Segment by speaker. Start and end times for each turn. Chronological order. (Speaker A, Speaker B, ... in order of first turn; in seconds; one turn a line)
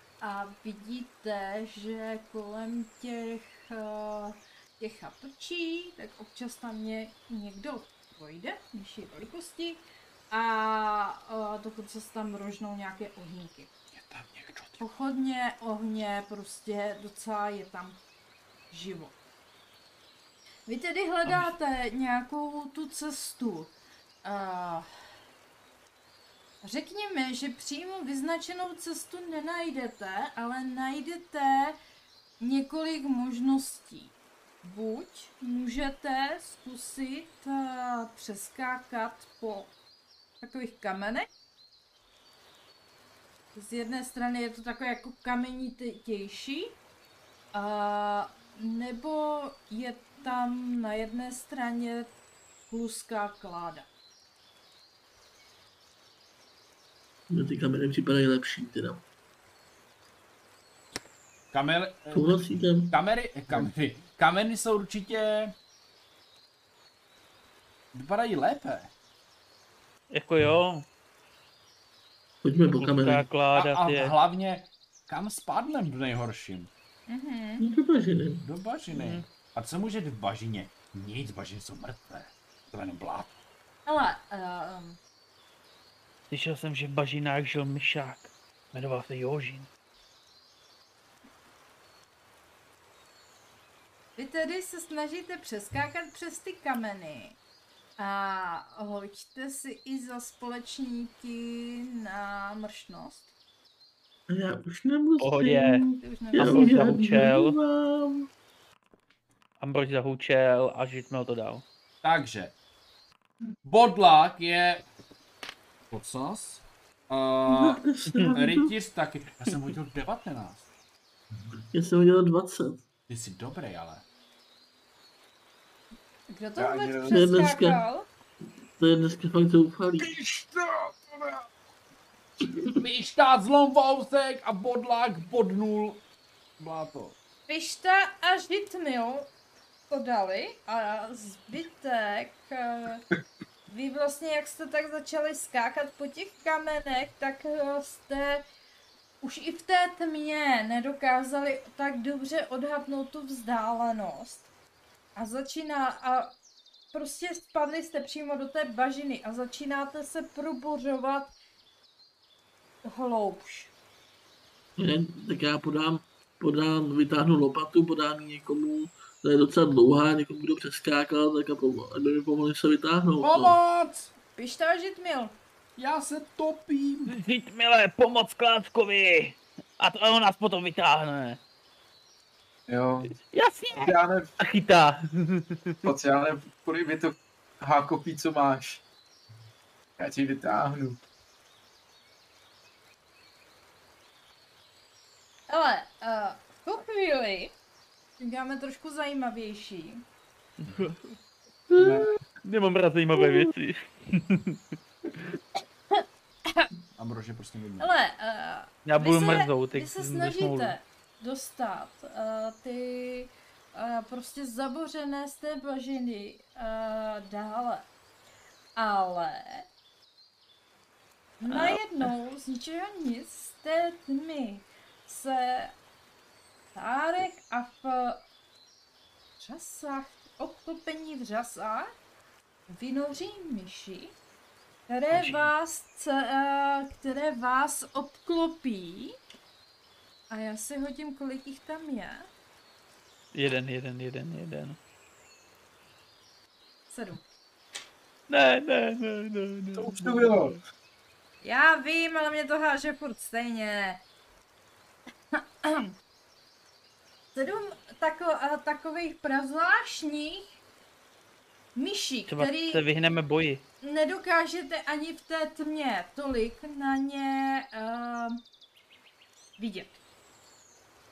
Speaker A: 0.2-13.7
Speaker B: 13.9-14.8
Speaker A: 14.8-18.0
Speaker A: 18.7-19.1
Speaker A: 20.7-24.9
Speaker A: 26.6-31.8
Speaker A: 32.4-39.7
Speaker A: 40.4-41.3
Speaker A: 43.5-46.8
Speaker A: 47.5-52.1
Speaker A: 52.7-53.9
Speaker C: 57.3-59.0
Speaker B: 61.5-65.6
Speaker C: 62.1-63.0
Speaker B: 67.9-68.9
Speaker D: 70.1-70.9
Speaker C: 72.4-73.3
Speaker D: 72.8-74.1
Speaker B: 73.5-76.7
Speaker A: 77.1-77.7
Speaker C: 77.6-78.5
Speaker B: 78.4-83.3
Speaker D: 78.9-79.2
Speaker A: 83.9-85.0
Speaker D: 86.3-89.7
Speaker A: 94.2-97.4
Speaker A: 98.0-103.3
Speaker C: 104.3-108.3
Speaker D: 105.2-105.8
Speaker A: 106.0-107.0
Speaker D: 106.4-107.6
Speaker D: 109.6-111.7
Speaker B: 112.0-112.5
Speaker B: 113.6-114.9
Speaker B: 115.9-120.7
Speaker C: 117.5-118.7
Speaker C: 121.7-122.8
Speaker B: 123.1-124.0
Speaker A: 126.3-128.1
Speaker E: 126.6-127.2
Speaker C: 127.1-127.8
Speaker C: 128.8-130.1
Speaker E: 130.0-131.5
Speaker C: 132.4-132.8
Speaker B: 132.8-136.0
Speaker B: 136.6-137.2
Speaker A: 137.5-139.3
Speaker A: 139.9-143.1
Speaker A: 143.7-148.4
Speaker A: 149.2-154.5
Speaker A: 155.2-156.4
Speaker A: 156.9-161.3
Speaker A: 162.8-163.7
Speaker C: 164.8-173.6
Speaker B: 173.2-174.1
Speaker A: 174.4-175.4
Speaker B: 175.8-177.2
Speaker D: 177.1-181.4
Speaker E: 182.7-183.2
Speaker D: 183.2-185.9
Speaker E: 183.8-184.3
Speaker E: 185.8-188.8
Speaker E: 190.0-191.0
Speaker A: 195.5-197.6
Speaker A: 198.2-200.1
Speaker D: 200.6-201.1
Speaker C: 201.7-202.1
Speaker E: 201.8-202.1
Speaker D: 202.4-204.6
Speaker C: 203.2-203.4
Speaker B: 207.0-207.9
Speaker A: 207.8-217.9
Speaker D: 208.9-210.8
Speaker A: 218.8-219.7
Speaker A: 221.4-225.8
Speaker D: 221.5-222.1
Speaker A: 226.8-228.2
Speaker A: 229.4-231.9
Speaker A: 232.7-234.2
Speaker A: 234.9-239.2
Speaker D: 235.1-235.5
Speaker A: 240.3-242.3
Speaker D: 243.3-244.8
Speaker A: 246.9-247.2
Speaker D: 248.3-250.6
Speaker E: 249.8-250.6
Speaker A: 251.4-254.0
Speaker A: 255.3-255.9
Speaker A: 257.4-260.5
Speaker A: 261.8-262.9
Speaker D: 262.3-263.6
Speaker A: 263.8-268.4
Speaker A: 269.6-270.0